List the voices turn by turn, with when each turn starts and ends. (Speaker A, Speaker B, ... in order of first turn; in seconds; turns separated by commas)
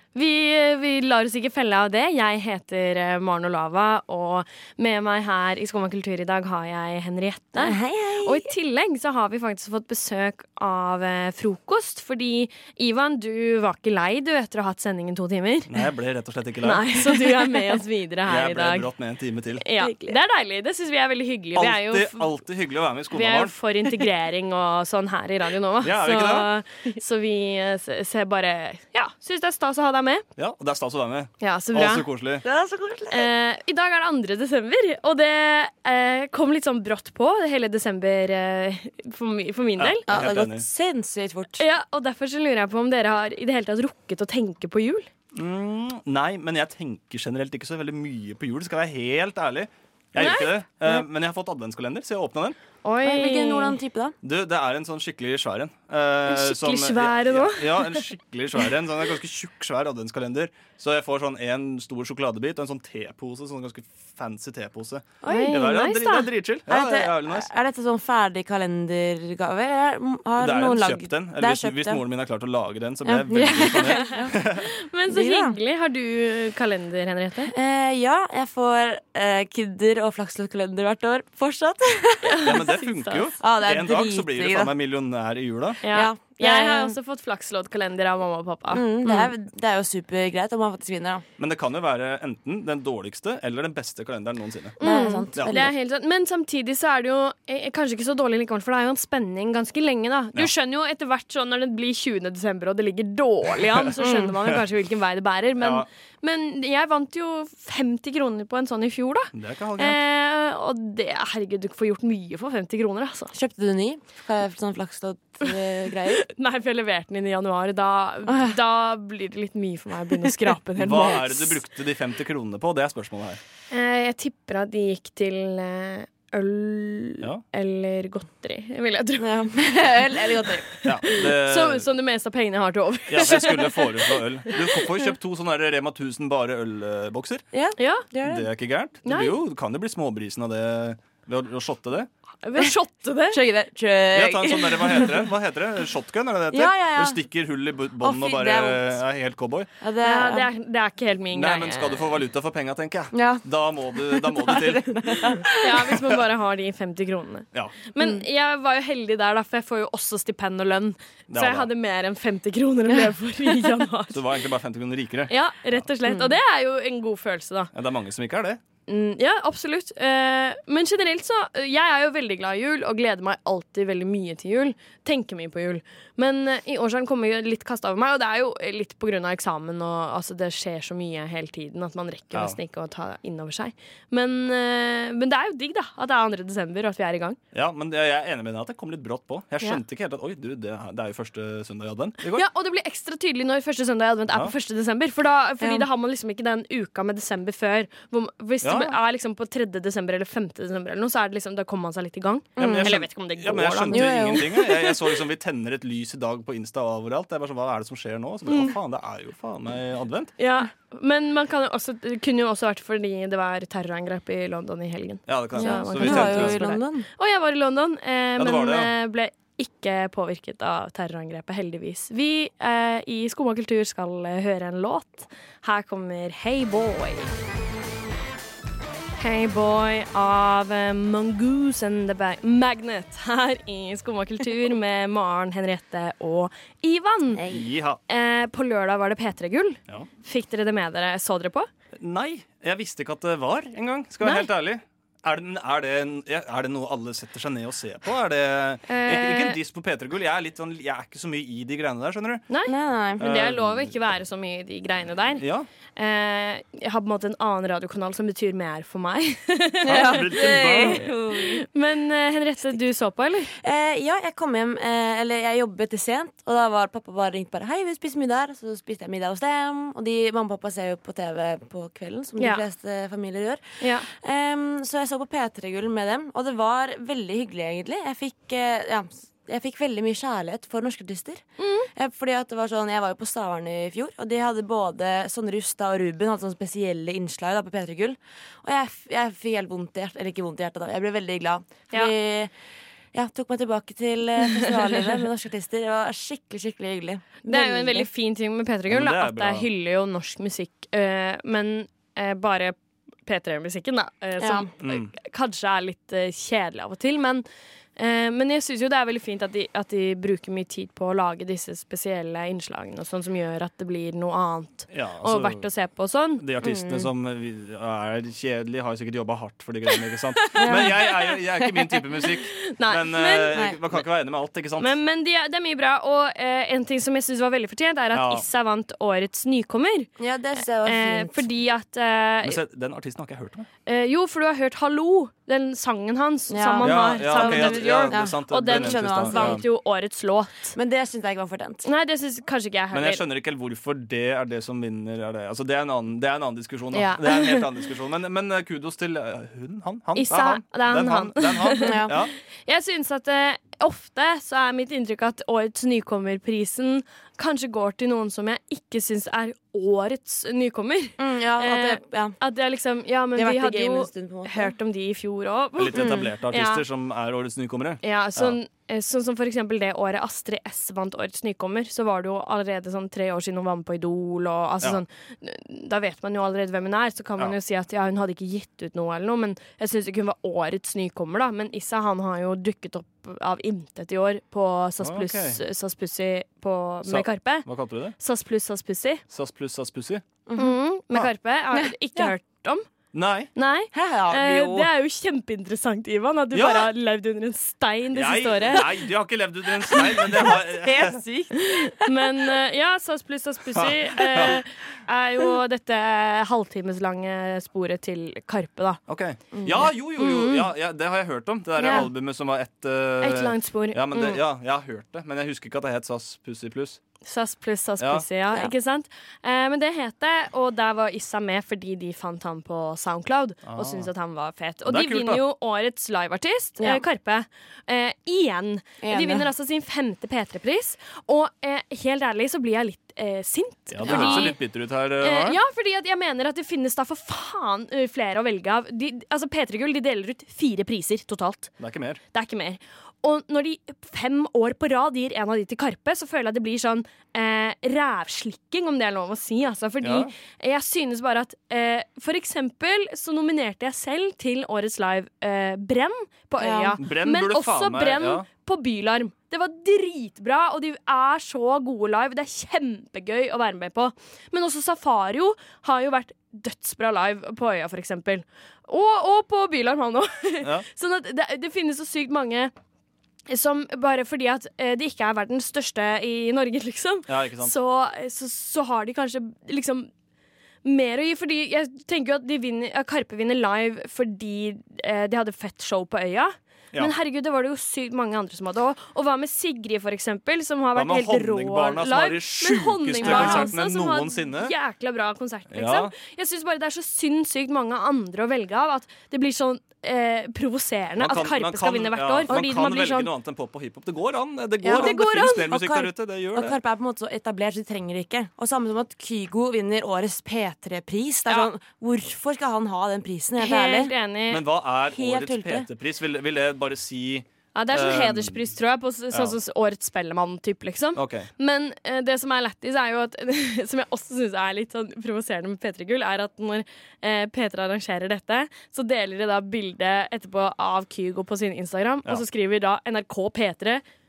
Speaker A: 0.1-15.7, Speaker B: 7.5-8.5, Speaker C: 15.7-17.0, Speaker A: 16.6-18.9, Speaker C: 18.3-19.6, Speaker A: 19.6-22.3, Speaker B: 19.8-20.2, Speaker C: 21.6-23.5, Speaker A: 23.1-30.2, Speaker C: 25.8-26.5, Speaker C: 30.4-32.5, Speaker A: 31.4-32.0, Speaker B: 32.4-33.3, Speaker A: 33.1-40.1, Speaker C: 39.8-40.7, Speaker B: 40.1-41.6, Speaker A: 41.6-45.1, Speaker C: 45.4-52.6, Speaker A: 50.2-50.5, Speaker A: 52.8-53.8, Speaker B: 53.0-54.1, Speaker C: 54.2-67.5, Speaker A: 56.3-58.0, Speaker B: 65.2-65.8, Speaker A: 65.3-66.3, Speaker B: 66.7-72.0, Speaker C: 70.4-74.7, Speaker B: 73.0-74.4, Speaker A: 74.8-77.5, Speaker B: 75.1-75.6, Speaker B: 77.5-82.6, Speaker A: 82.3-83.2, Speaker C: 82.4-85.8, Speaker B: 83.4-84.7, Speaker B: 85.8-87.0, Speaker A: 85.8-89.3, Speaker B: 88.7-91.2, Speaker C: 91.4-94.8, Speaker A: 94.8-113.3, Speaker B: 94.8-95.7, Speaker C: 95.3-95.7, Speaker B: 104.0-104.3, Speaker C: 105.6-105.9, Speaker C: 109.3-110.0, Speaker B: 113.3-116.2, Speaker A: 116.1-121.6, Speaker B: 118.3-118.6, Speaker B: 120.1-120.5, Speaker C: 120.8-123.4, Speaker A: 123.7-129.5, Speaker B: 129.2-130.7, Speaker A: 130.8-134.9, Speaker C: 130.8-131.9, Speaker C: 133.1-137.4, Speaker B: 137.5-138.5, Speaker A: 137.8-138.1, Speaker C: 138.2-142.1, Speaker A: 139.1-139.3, Speaker A: 142.4-143.4, Speaker B: 143.3-145.3, Speaker C: 144.2-149.7, Speaker B: 146.5-147.2, Speaker B: 148.0-148.9, Speaker B: 149.8-150.5, Speaker A: 150.0-152.0, Speaker C: 151.3-155.4, Speaker B: 153.1-153.4, Speaker B: 153.9-155.9, Speaker A: 155.6-164.2, Speaker C: 161.3-161.7, Speaker C: 164.1-165.8, Speaker A: 165.3-167.7, Speaker B: 166.1-166.4, Speaker C: 167.7-168.6, Speaker A: 168.9-187.4, Speaker C: 182.3-182.6, Speaker C: 187.5-192.4, Speaker A: 192.3-204.9, Speaker B: 195.6-195.9, Speaker C: 198.6-198.9, Speaker B: 202.6-203.0, Speaker C: 202.6-210.3, Speaker B: 203.9-204.6, Speaker A: 210.4-227.3, Speaker C: 215.3-216.7, Speaker B: 215.6-217.1, Speaker C: 218.4-218.9, Speaker A: 229.2-237.5, Speaker B: 237.4-237.6, Speaker C: 237.5-238.0, Speaker A: 238.1-241.7, Speaker C: 242.0-252.5, Speaker A: 248.9-249.6, Speaker A: 252.5-255.4, Speaker B: 252.7-253.2, Speaker C: 253.2-253.9, Speaker C: 255.4-255.7, Speaker A: 256.0-263.5, Speaker B: 259.8-261.6, Speaker C: 259.9-261.0, Speaker B: 263.5-292.5, Speaker A: 272.4-272.6, Speaker A: 273.8-274.1, Speaker A: 281.6-281.9, Speaker B: 293.1-298.1, Speaker A: 294.5-294.9, Speaker A: 297.4-307.4, Speaker C: 298.9-299.7, Speaker B: 304.4-304.7, Speaker C: 304.8-305.1, Speaker A: 308.0-316.4, Speaker C: 314.9-315.6, Speaker C: 316.4-325.0, Speaker B: 316.6-317.1, Speaker A: 320.5-321.0, Speaker B: 320.6-321.1, Speaker A: 322.6-323.6, Speaker B: 323.5-323.8, Speaker A: 324.8-330.1, Speaker C: 328.1-328.4, Speaker B: 330.2-331.5, Speaker A: 330.9-332.6, Speaker C: 332.4-333.7, Speaker A: 333.9-340.8, Speaker B: 336.5-339.6, Speaker C: 336.8-339.6, Speaker B: 340.8-341.9, Speaker A: 341.9-343.2, Speaker C: 342.9-352.3, Speaker A: 346.9-347.6, Speaker A: 350.1-366.8, Speaker B: 351.8-352.2, Speaker B: 361.2-362.4, Speaker B: 363.4-364.7, Speaker C: 365.8-368.6, Speaker B: 365.9-366.3, Speaker A: 368.0-387.7, Speaker C: 385.0-385.6, Speaker C: 387.1-388.2, Speaker A: 388.2-389.2, Speaker C: 389.3-390.2, Speaker B: 390.5-390.7, Speaker A: 390.6-392.9, Speaker B: 391.7-392.3, Speaker C: 393.1-393.5, Speaker A: 393.6-398.9, Speaker B: 393.9-394.9, Speaker C: 396.5-396.9, Speaker C: 398.1-401.2, Speaker B: 400.0-402.1, Speaker A: 401.6-409.0, Speaker C: 403.8-404.6, Speaker C: 409.1-417.0, Speaker B: 409.5-409.9, Speaker A: 410.2-410.7, Speaker B: 411.8-412.1, Speaker A: 411.8-412.1, Speaker A: 413.2-414.4, Speaker A: 417.2-434.6, Speaker C: 418.0-418.2, Speaker C: 423.7-424.1, Speaker C: 424.9-425.5, Speaker B: 426.8-427.0, Speaker B: 429.0-429.5, Speaker C: 433.9-435.6, Speaker B: 434.1-434.6, Speaker A: 435.2-441.7, Speaker C: 441.8-442.2, Speaker A: 442.3-472.7, Speaker C: 450.0-450.3, Speaker B: 456.6-457.0, Speaker C: 457.0-458.5, Speaker A: 473.5-480.1, Speaker C: 477.3-477.7, Speaker A: 480.8-503.3, Speaker C: 490.9-494.7, Speaker B: 493.2-493.7, Speaker C: 495.7-496.1, Speaker C: 501.2-506.8, Speaker B: 504.8-514.1, Speaker A: 504.9-505.7, Speaker A: 513.6-514.6, Speaker C: 514.5-518.7, Speaker B: 515.1-515.9, Speaker A: 517.8-534.0, Speaker C: 521.2-521.5